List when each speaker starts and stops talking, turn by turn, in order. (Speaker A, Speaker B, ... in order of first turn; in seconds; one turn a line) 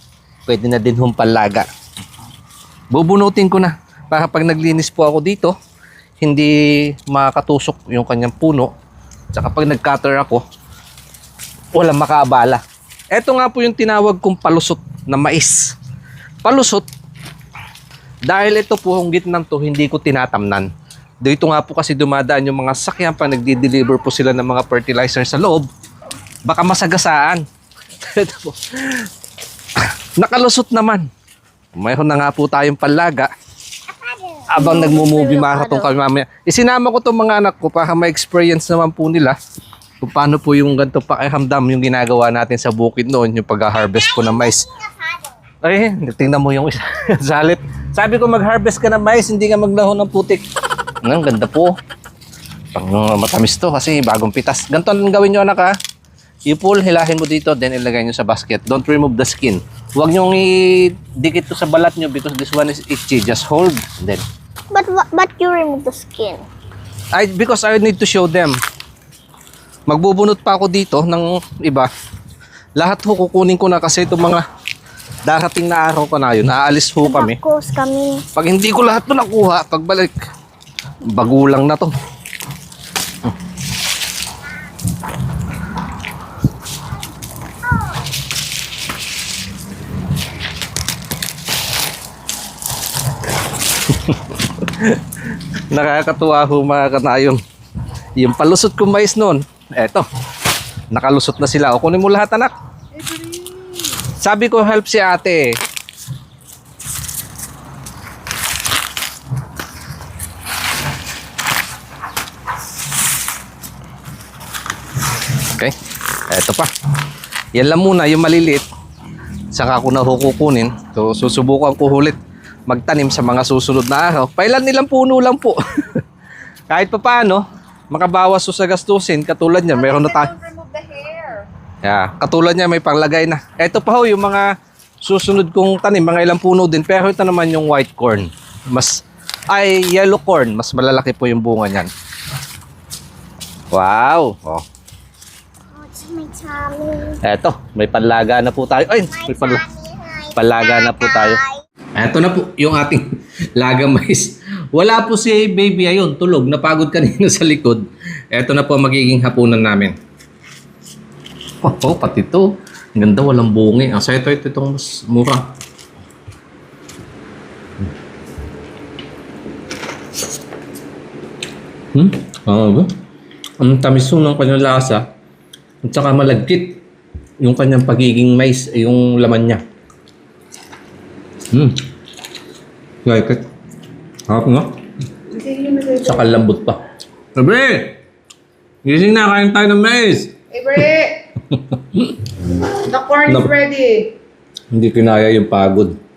Speaker A: 0.5-1.7
Speaker A: 2.9-5.5
Speaker A: 6.2-8.7
Speaker A: 9.3-10.4
Speaker A: 11.7-12.6
Speaker A: 13.1-15.7
Speaker A: 16.4-16.9
Speaker A: 18.3-20.7
Speaker A: 21.2-25.7
Speaker A: 26.5-27.4
Speaker A: 28.0-29.1
Speaker A: 30.2-31.1
Speaker A: 31.8-33.3
Speaker B: 33.9-35.9
Speaker A: 34.5-39.4
Speaker A: 40.0-44.7
Speaker B: 44.2-45.2
Speaker A: 45.6-50.4
Speaker A: 51.0-51.8
Speaker A: 52.8-55.7
Speaker A: 56.5-64.2
Speaker B: 64.7-66.4
Speaker A: 67.1-68.6
Speaker A: 69.9-71.9
Speaker A: 72.8-74.4
Speaker A: 75.3-77.4
Speaker B: 77.0-78.2
Speaker A: 78.3-80.2
Speaker A: 81.0-81.9
Speaker A: 93.9-95.0
Speaker A: 95.7-97.4
Speaker A: 98.2-100.0
Speaker A: 100.9-102.5
Speaker C: 103.0-103.8
Speaker A: 104.0-105.6
Speaker A: 116.3-116.7
Speaker A: 117.5-118.7
Speaker A: 119.5-122.2
Speaker A: 122.7-126.0
Speaker A: 126.7-130.3
Speaker C: 129.9-131.5
Speaker A: 131.8-134.5
Speaker A: 135.0-141.9
Speaker A: 143.7-144.6
Speaker B: 145.8-147.2
Speaker A: 147.2-149.7
Speaker B: 149.2-151.3
Speaker A: 150.3-151.4
Speaker A: 152.0-153.1
Speaker A: 153.6-159.9
Speaker A: 161.6-165.5
Speaker A: 171.9-172.9
Speaker A: 173.6-175.1
Speaker A: 175.8-176.8
Speaker A: 177.4-179.6
Speaker A: 181.5-181.8
Speaker A: 183.1-183.4
Speaker A: 184.3-184.7
Speaker C: 185.3-186.3
Speaker A: 186.0-186.8
Speaker A: 187.3-187.9
Speaker A: 188.8-190.8
Speaker C: 190.5-191.2
Speaker A: 191.5-192.3
Speaker C: 192.8-194.1
Speaker A: 193.3-193.6
Speaker A: 194.7-195.9